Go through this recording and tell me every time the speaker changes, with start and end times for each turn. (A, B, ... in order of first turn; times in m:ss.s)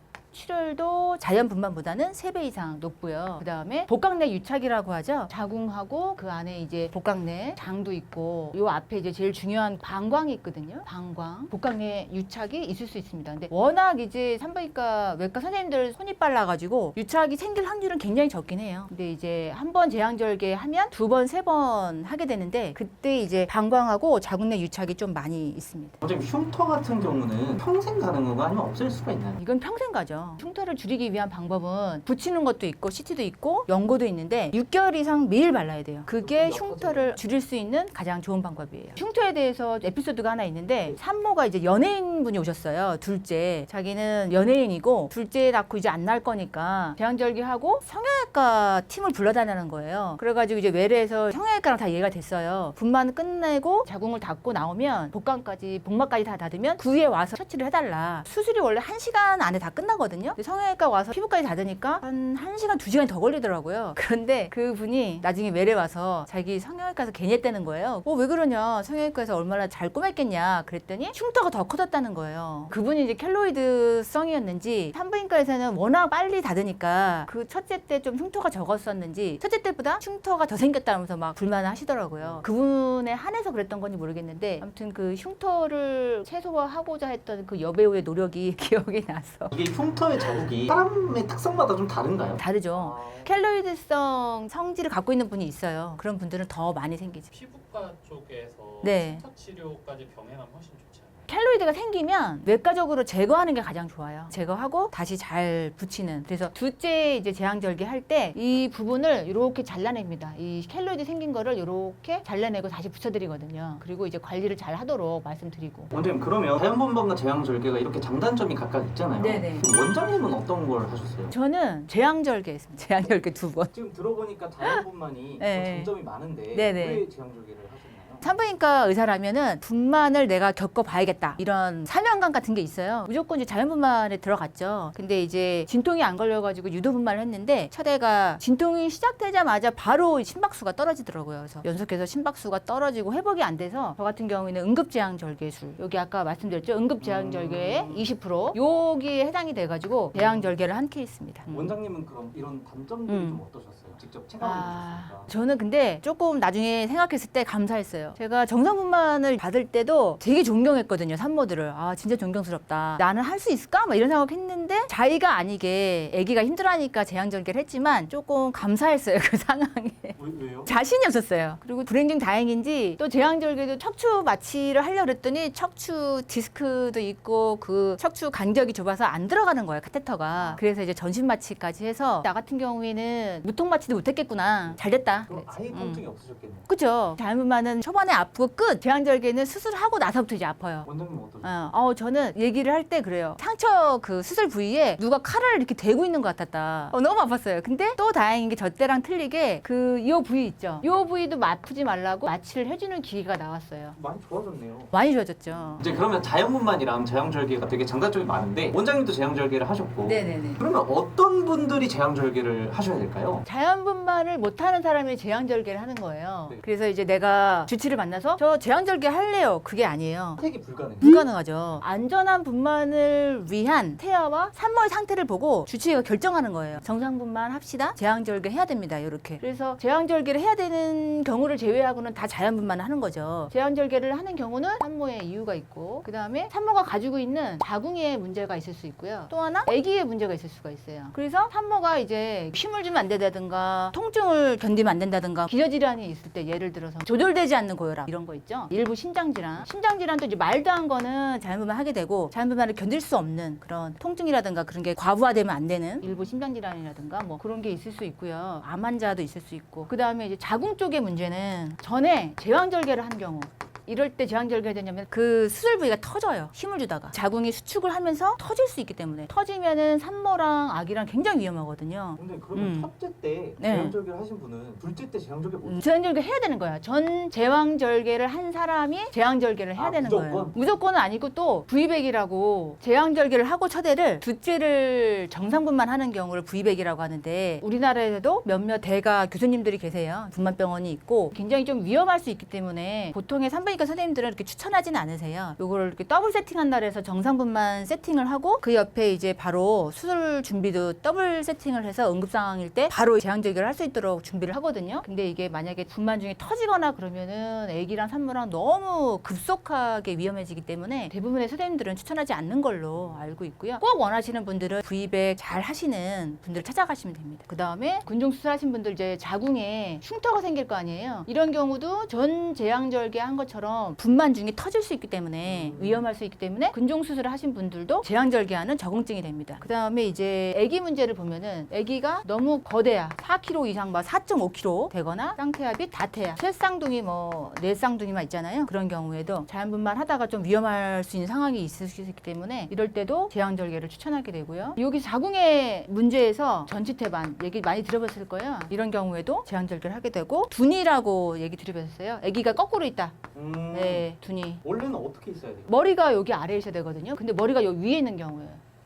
0:00.3-0:26.0 A
0:26.0-0:29.4 B
0:29.4-1:29.5 A
0:36.2-0:37.2 B
1:22.2-1:22.5 B
1:29.5-1:33.3 B
1:30.2-1:30.5 A
1:32.4-1:37.3 A
1:37.3-1:40.2 C
1:37.4-1:37.8 B
1:38.5-1:41.1 B
1:38.8-1:39.2 A
1:41.3-1:55.9 A
1:55.9-2:01.3 B
1:59.2-1:59.7 A
2:01.3-2:03.7 A
2:03.7-2:08.3 B
2:05.4-2:05.9 A
2:06.5-2:07.0 A
2:08.2-2:31.7 A
2:27.0-2:28.1 B
2:30.2-2:30.5 B
2:31.4-2:35.3 B
2:33.1-2:33.4 A
2:34.4-3:06.0 A
2:50.2-2:50.7 B
3:00.3-3:00.6 B
3:04.7-3:06.7 B
3:06.7-3:10.9 A
3:10.8-3:11.7 B
3:11.4-3:24.0 A
3:24.0-3:24.9 B
3:24.9-3:25.9 A
3:25.8-3:33.4 B
3:30.0-3:30.6 A
3:33.4-3:40.4 A
3:40.4-3:41.2 B
3:41.0-4:32.9 A
4:16.0-4:16.3 B
4:32.2-4:35.8 B
4:33.6-4:34.0 A
4:35.6-5:53.2 A
4:39.8-4:40.6 B
5:25.4-5:26.0 B
5:53.4-5:54.1 B
5:53.7-5:54.6 A
5:54.6-5:55.7 B
5:55.7-5:58.6 A